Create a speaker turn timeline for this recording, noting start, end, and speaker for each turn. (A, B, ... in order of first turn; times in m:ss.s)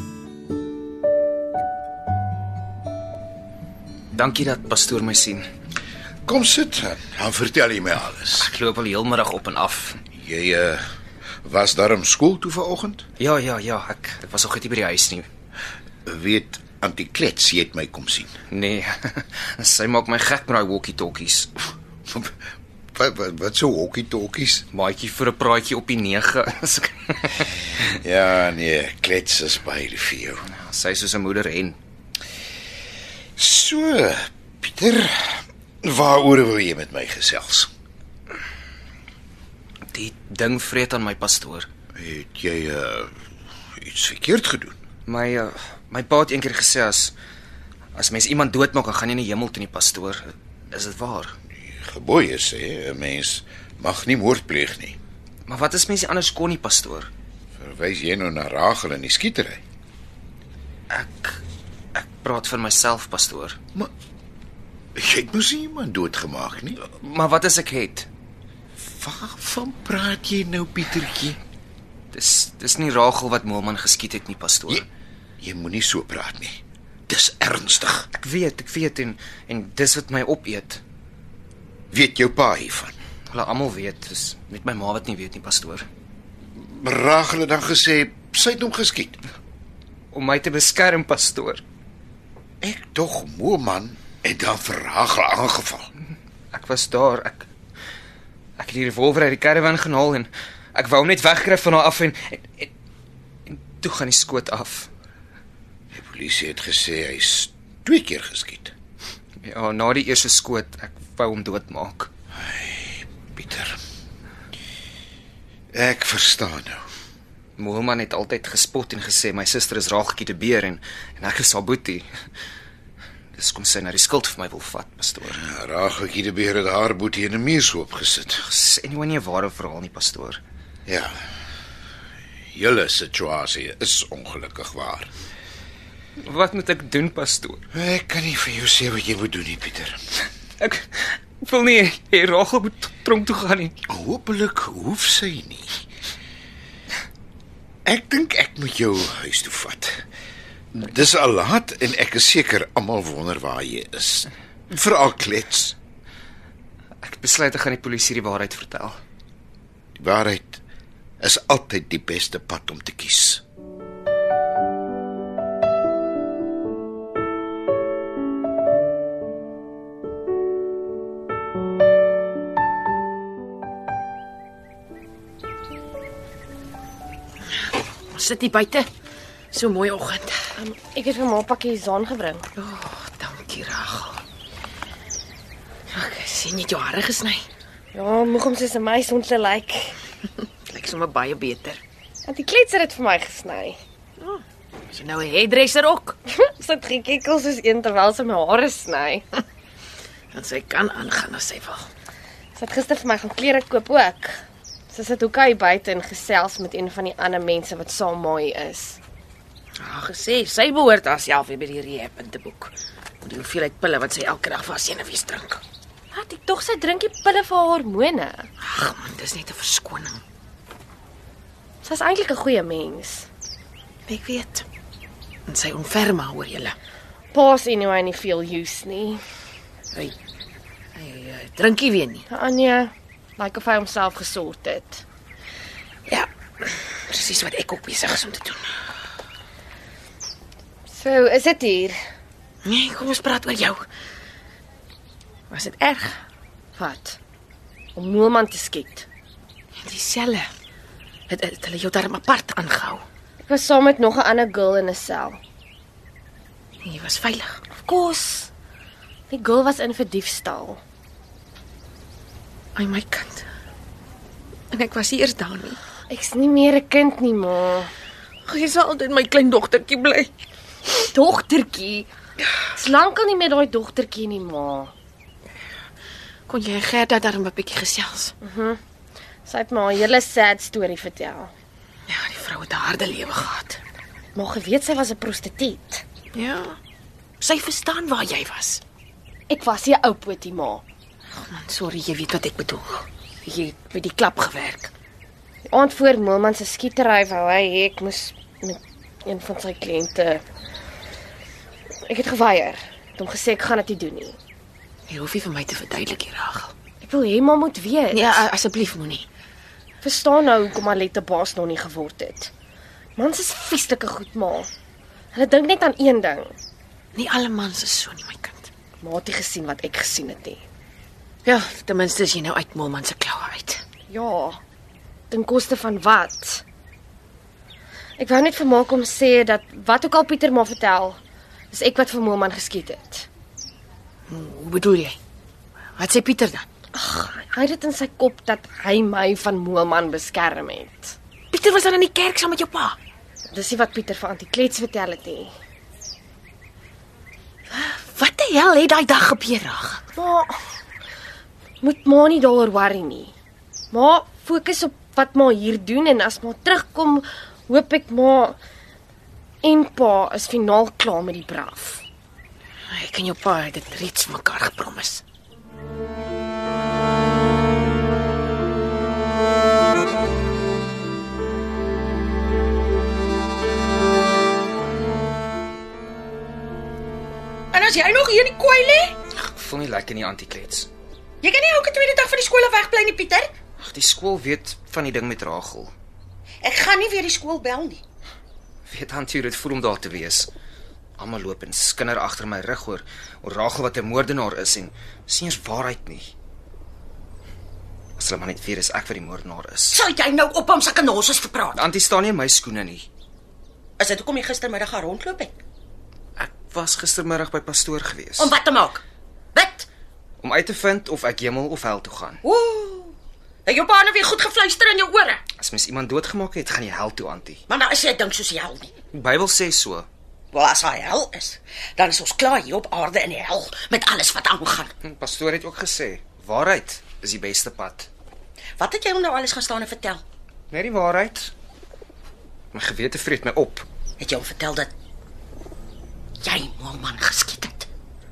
0:04.1-0:05.4 A
0:06.2-0:08.5 B
0:08.4-0:10.0 A
0:10.1-0:10.8 B
0:11.4-0:13.0 B
0:13.2-0:15.3 A
0:16.0-0:18.3 B
0:18.5-0:21.5 A
0:22.1-0:22.3 B
0:22.9-0:24.6 B
0:24.7-0:27.5 A
0:27.8-0:30.5 B
0:30.5-0:31.8 A
0:33.4-0:37.7 B
0:39.9-0:41.7 A
0:41.9-0:43.1 B
0:43.8-0:44.8 B
0:45.0-0:47.1 A
0:47.9-0:51.3 A
0:51.6-0:55.0 B
0:55.5-0:57.1 A
0:57.6-0:59.6 B
1:00.9-1:01.4 A
1:01.9-1:03.6 A
1:05.0-1:06.8 B
1:06.8-1:08.1 A
1:08.8-1:11.4 B
1:12.1-1:14.8 A
1:15.4-1:18.1 B
1:18.2-1:20.8 A
1:21.9-1:22.9 B
1:23.3-1:25.8 A
1:26.5-1:29.2 B
1:30.1-1:31.6 A
1:32.6-1:35.9 B
1:36.5-1:37.4 A
1:38.6-1:42.7 A
1:43.4-1:44.9 A
1:45.9-1:48.7 B
1:49.4-1:52.1 A
1:52.3-1:53.8 B
1:55.7-1:56.8 B
1:57.6-2:02.1 A
2:03.3-2:05.4 A
2:05.3-2:08.4 B
2:08.4-2:10.4 A
2:10.8-2:11.2 B
2:12.5-2:15.1 B
2:16.2-2:17.6 A
2:17.7-2:20.0 B
2:20.6-2:23.8 A
2:23.9-2:25.8 B
2:27.8-2:30.0 B
2:30.7-2:35.8 B
2:37.0-2:39.0 A
2:40.0-2:40.6 B
2:41.2-2:43.4 B
2:58.1-2:58.9 C
2:59.5-3:00.5 C
3:00.5-3:02.4 D
3:02.6-3:04.2 C
3:05.9-3:07.5 C
3:07.9-3:10.0 D
3:10.7-3:11.8 C
3:12.2-3:13.8 D
3:14.2-3:16.2 C
3:16.3-3:19.2 D
3:20.3-3:21.9 C
3:22.5-3:29.0 D
3:29.8-3:32.7 C
3:33.2-3:35.6 C
3:36.1-3:38.5 D
3:38.6-3:40.2 C
3:41.8-3:43.3 D
3:44.1-3:44.6 C
3:45.5-3:46.7 C
3:47.3-3:49.2 D
3:51.0-3:52.2 C
3:52.3-3:55.0 D
3:56.1-3:58.8 C
4:00.9-4:02.0 D
4:02.6-4:03.8 C
4:05.5-4:06.2 C
4:06.8-4:07.2 D
4:08.0-4:09.0 D
4:09.8-4:10.5 C
4:11.3-4:13.0 C
4:13.4-4:15.4 D
4:16.8-4:17.6 C
4:17.7-4:18.5 D
4:19.3-4:20.8 D
4:22.8-4:23.5 C
4:24.7-4:25.8 C
4:26.1-4:27.9 D
4:28.4-4:30.3 C
4:31.0-4:32.1 D
4:32.7-4:34.9 D
4:36.5-4:38.3 C
4:38.4-4:38.8 D
4:39.4-4:41.5 D
4:42.1-4:43.8 C
4:44.3-4:46.0 D
4:46.3-4:46.8 C
4:47.4-4:48.8 C
4:49.5-4:50.8 D
4:51.3-4:54.9 C
4:55.7-5:00.4 D
5:02.1-5:04.4 D
5:05.1-5:06.7 C
5:07.0-5:08.5 D
5:08.1-5:09.3 C
5:10.0-5:12.5 D
5:13.2-5:14.7 D
5:15.3-5:16.5 D
5:17.1-5:18.7 C
5:19.0-5:20.6 D
5:21.4-5:23.8 C
5:24.1-5:24.6 D
5:25.3-5:26.6 D
5:28.2-5:31.2 D
5:31.7-5:33.3 D
5:34.3-5:35.2 C
5:36.0-5:36.6 C
5:36.9-5:41.2 D
5:41.5-5:43.0 C
5:43.5-5:45.5 D
5:47.7-5:50.0 C
5:50.1-5:50.6 D
5:51.8-5:53.3 D
5:53.9-5:58.6 D
5:59.6-6:02.0 D
6:02.9-6:05.2 C
6:17.7-6:19.2 E
6:19.3-6:20.9 A
6:21.4-6:23.5 E
6:23.8-6:25.9 A
6:26.6-6:28.0 E
6:28.8-6:30.5 A
6:31.2-6:36.3 A
6:38.2-6:40.0 A
6:39.9-6:41.8 E
6:41.7-6:43.0 A
6:44.0-6:45.6 E
6:46.4-6:48.5 A
6:48.4-6:49.0 E
6:49.5-6:49.9 E
6:50.4-6:52.4 A
6:52.4-6:53.1 E
6:53.6-6:55.4 E
6:55.6-6:57.6 A
6:57.7-6:58.9 E
6:59.1-7:00.1 A
7:00.5-7:04.9 E
7:05.0-7:08.1 A
7:08.8-7:10.2 E
7:10.7-7:11.5 A
7:12.7-7:13.8 A
7:14.2-7:14.9 E
7:16.4-7:17.9 E